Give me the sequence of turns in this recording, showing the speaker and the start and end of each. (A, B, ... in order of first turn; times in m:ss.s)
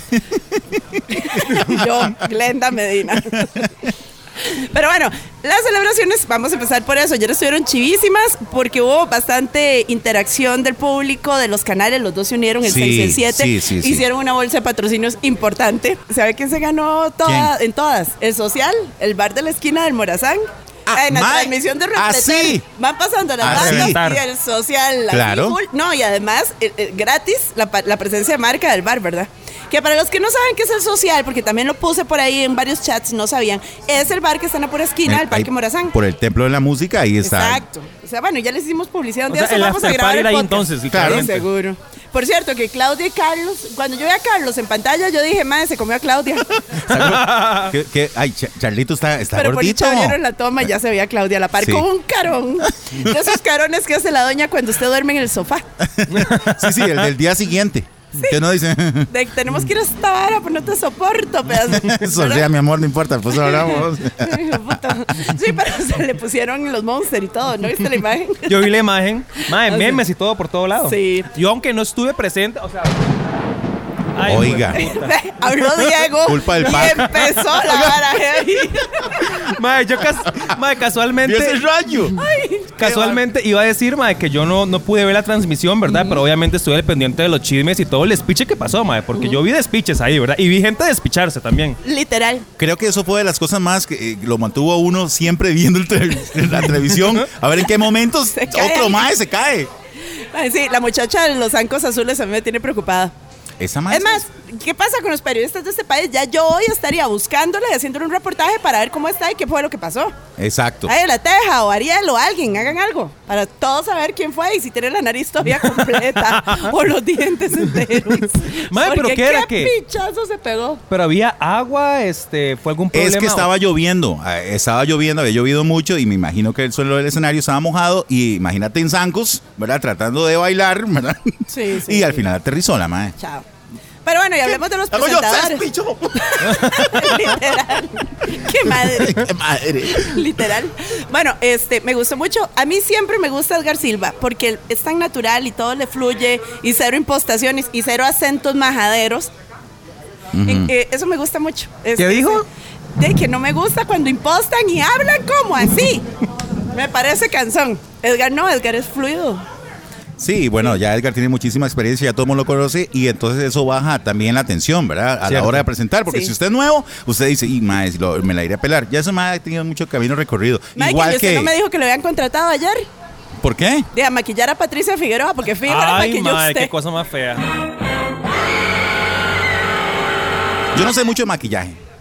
0:00.1-0:02.1 A
0:01.1-0:36.0 B
0:03.2-0:03.7 A
0:12.6-0:14.0 A
0:17.2-0:17.5 A
0:20.9-0:22.6 A
0:23.4-0:24.0 A
0:23.4-0:24.2 C
0:25.1-0:25.6 A
0:35.1-0:37.6 A
0:37.2-0:46.6 B
0:39.3-0:41.5 C
0:40.9-0:41.3 A
0:46.7-0:50.2 A
0:46.9-0:47.7 C
0:49.3-0:55.7 B
0:51.6-0:51.9 A
0:52.6-0:53.3 A
0:55.8-0:59.1 A
0:56.1-0:56.9 C
0:59.1-1:02.5 B
1:01.6-1:05.0 A
1:03.3-1:08.7 B
1:08.5-1:13.0 C
1:09.4-1:10.0 B
1:10.8-1:11.3 B
1:14.1-1:15.9 C
1:14.2-1:14.8 A
1:14.7-1:19.5 B
1:16.2-1:17.7 A
1:19.4-1:21.6 C
1:21.2-1:22.2 A
1:22.2-1:22.7 B
1:22.8-1:31.8 C
1:22.8-1:23.2 A
1:25.9-1:26.2 B
1:31.8-1:32.5 B
1:32.6-1:39.7 A
1:38.3-1:39.1 B
1:40.3-1:43.2 B
1:43.6-1:44.2 A
1:43.9-1:50.1 B
1:50.4-1:50.9 A
1:50.9-2:00.8 B
1:55.6-1:56.7 C
1:58.4-1:59.7 C
2:00.9-2:03.5 C
2:02.9-2:13.2 A
2:11.5-2:12.3 B
2:13.2-2:13.5 B
2:14.0-2:19.3 B
2:14.5-2:17.3 A
2:18.6-2:20.4 A
2:19.9-2:29.3 B
2:30.3-2:30.7 A
2:30.4-2:32.4 B
2:32.0-2:32.4 C
2:33.0-2:36.0 B
2:36.7-2:39.4 B
2:40.2-2:51.5 A
2:45.2-2:45.7 C
2:46.1-2:46.3 B
2:50.8-2:52.9 B
2:53.4-2:53.9 A
2:53.9-2:56.7 B
2:55.6-2:57.4 C
3:00.7-3:01.8 A